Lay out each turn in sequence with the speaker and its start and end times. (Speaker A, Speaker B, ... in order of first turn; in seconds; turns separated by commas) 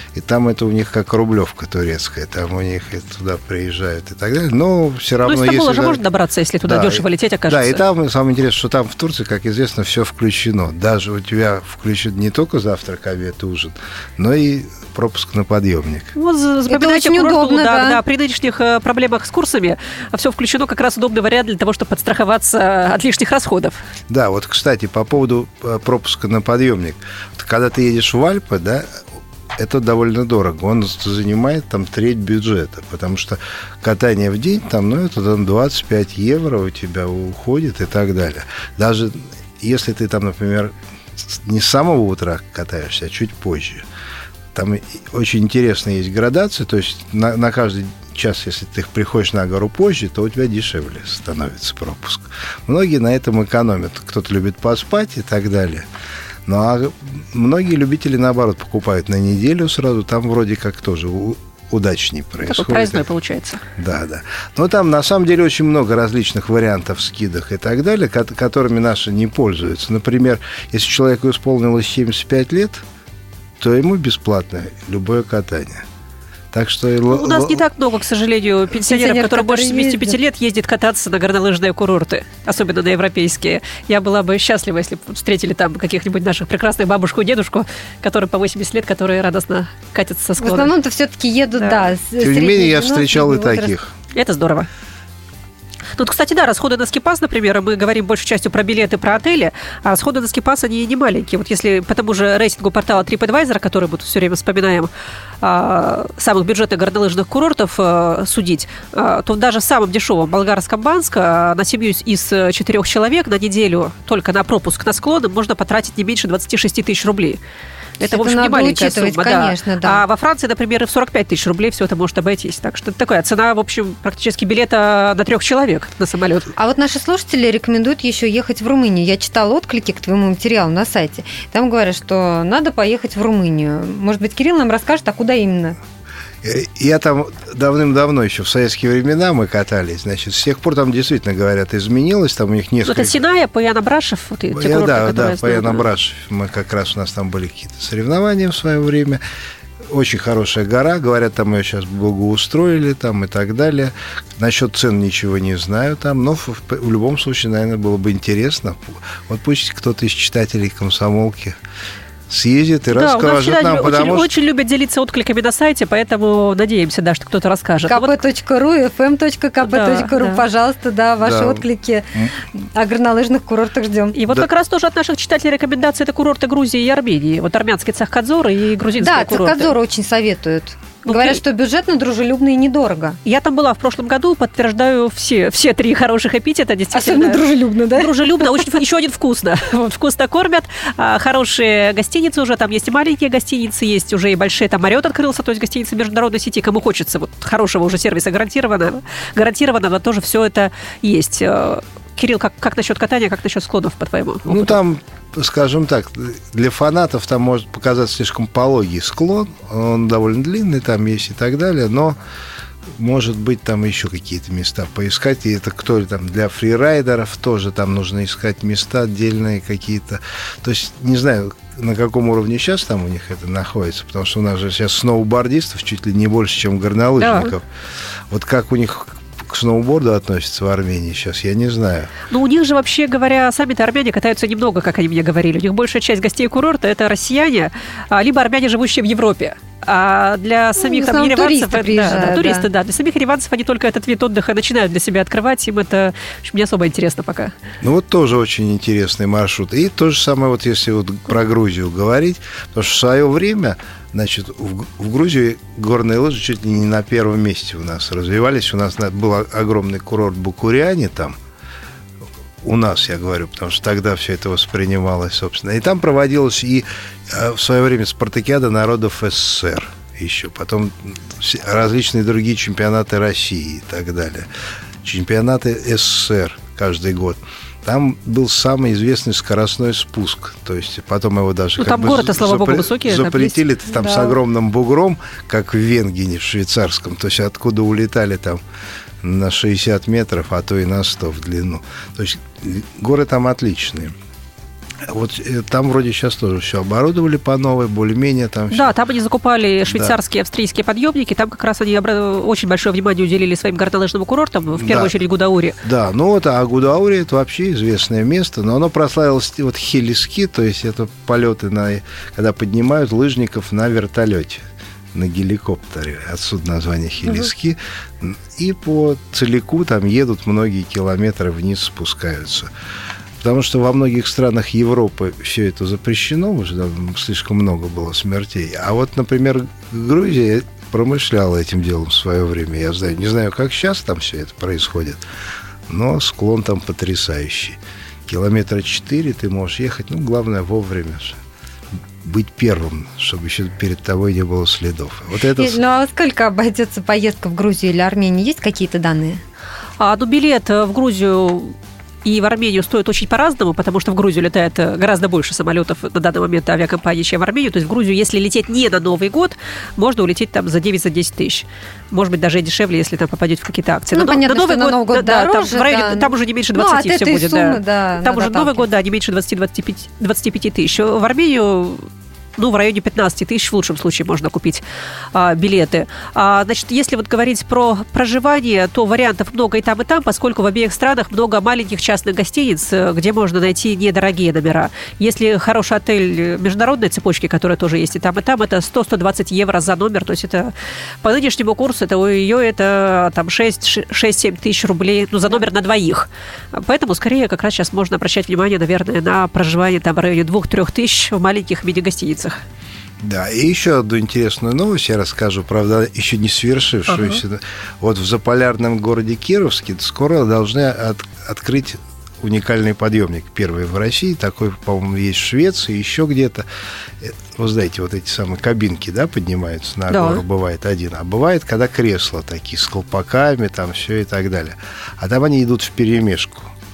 Speaker A: 0.1-6.0, Speaker B: 5.2-7.8, Speaker A: 6.6-16.1, Speaker B: 16.1-23.8, Speaker C: 16.7-18.0, Speaker A: 24.1-29.0, Speaker A: 29.6-43.9, Speaker A: 44.5-55.9, Speaker A: 56.5-63.1, Speaker B: 62.4-63.6, Speaker A: 63.8-72.8, Speaker A: 73.6-75.8, Speaker A: 76.5-77.6, Speaker B: 77.1-90.7, Speaker C: 78.7-80.2, Speaker C: 90.4-93.7, Speaker B: 91.6-91.9, Speaker A: 92.2-93.9, Speaker B: 94.1-94.7, Speaker B: 96.0-117.4, Speaker C: 118.0-120.0, Speaker B: 118.0-126.5, Speaker C: 126.6-135.8, Speaker A: 136.4-143.2, Speaker B: 142.8-145.8, Speaker A: 144.5-149.2, Speaker A: 149.9-161.6, Speaker A: 162.3-164.3, Speaker B: 162.9-168.2, Speaker C: 167.8-172.1, Speaker B: 169.6-170.4, Speaker A: 171.2-172.4, Speaker C: 172.7-174.2, Speaker B: 174.1-179.7, Speaker C: 179.0-183.2, Speaker B: 181.1-181.4, Speaker B: 183.2-204.8, Speaker C: 186.9-188.7, Speaker A: 204.5-212.2, Speaker A: 213.0-227.7, Speaker B: 227.2-227.5, Speaker A: 228.3-232.1, Speaker B: 232.3-247.5, Speaker C: 240.8-242.7, Speaker A: 247.8-261.4, Speaker A: 262.6-274.5, Speaker A: 275.0-288.6, Speaker B: 281.8-284.2, Speaker A: 289.2-294.1, Speaker A: 295.1-298.9, Speaker B: 298.7-305.8, Speaker A: 299.9-300.2, Speaker A: 304.8-305.2, Speaker A: 305.8-314.6, Speaker A: 315.1-322.7, Speaker A: 323.4-335.2, Speaker A: 335.9-341.4, Speaker A: 342.2-345.8, Speaker C: 345.6-349.4, Speaker B: 350.0-390.7, Speaker C: 364.1-368.9, Speaker B: 391.2-402.6, Speaker A: 403.2-416.6, Speaker B: 407.1-407.4, Speaker A: 417.2-426.7, Speaker B: 420.1-420.4